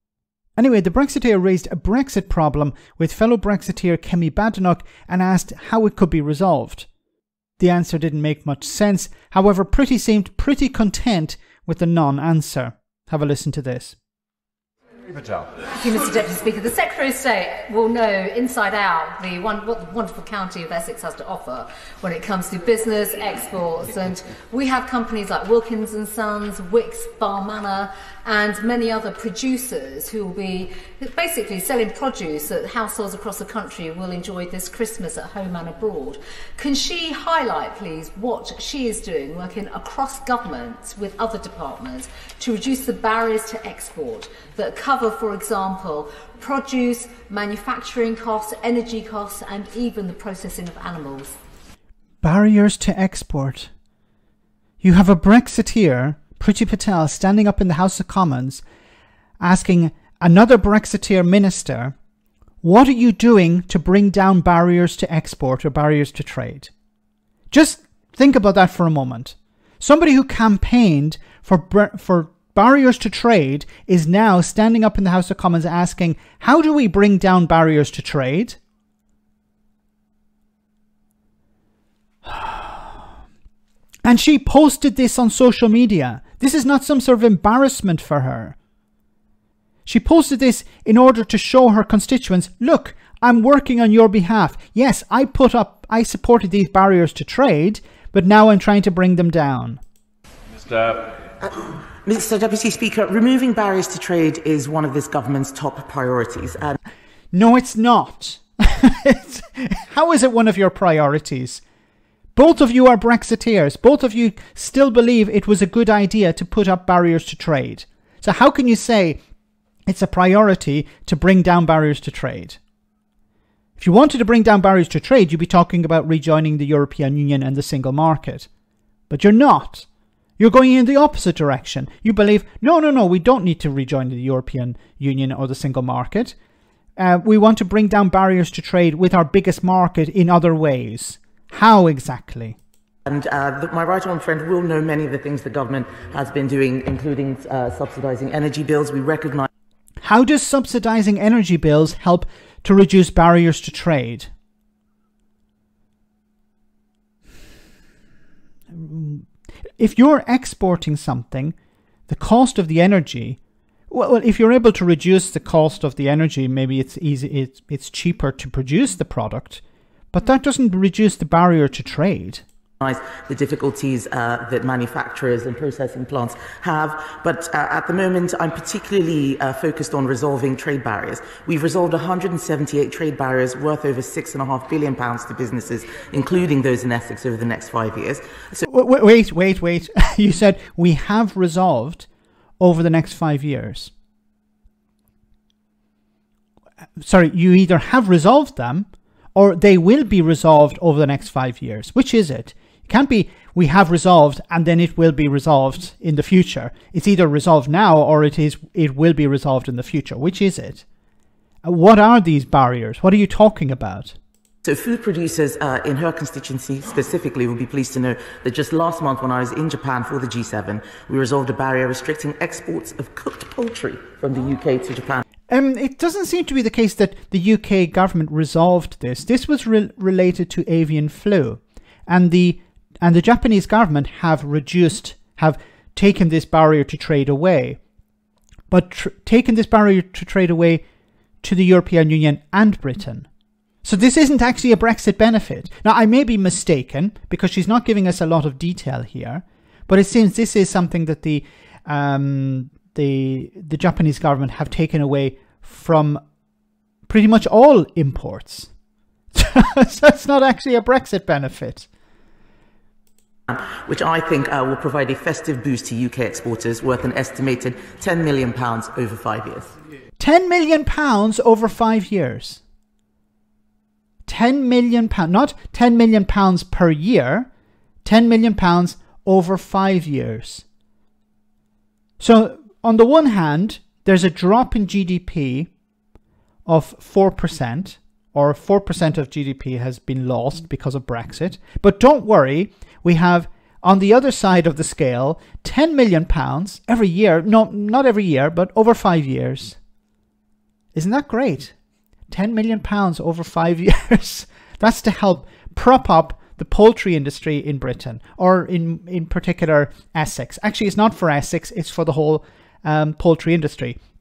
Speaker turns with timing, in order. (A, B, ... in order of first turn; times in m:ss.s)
0:00.6-0:06.9 A
0:07.6-0:14.0 A
0:15.7-0:51.4 B
0:52.2-0:53.7 A
0:54.8-0:58.6 A
0:59.4-1:01.9 A
1:02.6-1:06.7 A
1:07.5-1:18.6 A
1:22.2-1:22.8 A
1:24.0-1:28.6 A
1:29.8-1:39.8 A
1:41.4-1:46.8 C
1:47.3-1:51.6 A
1:52.3-1:59.2 A
1:59.8-2:02.6 A
2:03.8-2:08.5 A
2:09.1-2:09.9 A
2:10.4-2:16.3 A
2:17.0-2:22.6 A
2:23.1-2:29.5 C
2:30.0-2:34.3 A
2:38.7-2:41.5 A
2:42.1-2:43.4 A
2:43.9-2:52.4 A
2:52.8-3:08.6 C
3:08.6-3:12.1 A
3:12.6-3:13.9 A
3:17.0-3:30.8 A
3:31.6-3:34.2 A
3:34.6-3:45.2 C
3:45.5-3:57.8 A
3:58.7-4:00.8 A
4:01.4-4:03.3 A
4:03.8-4:16.2 A
4:17.1-4:18.7 A
4:19.3-4:21.9 A
4:23.5-4:29.7 C
4:30.2-4:32.6 A
4:34.2-4:37.5 A
4:38.0-4:40.6 A
4:42.2-4:45.7 A
4:46.6-4:59.8 A
5:00.9-5:01.7 A
5:02.3-5:14.0 A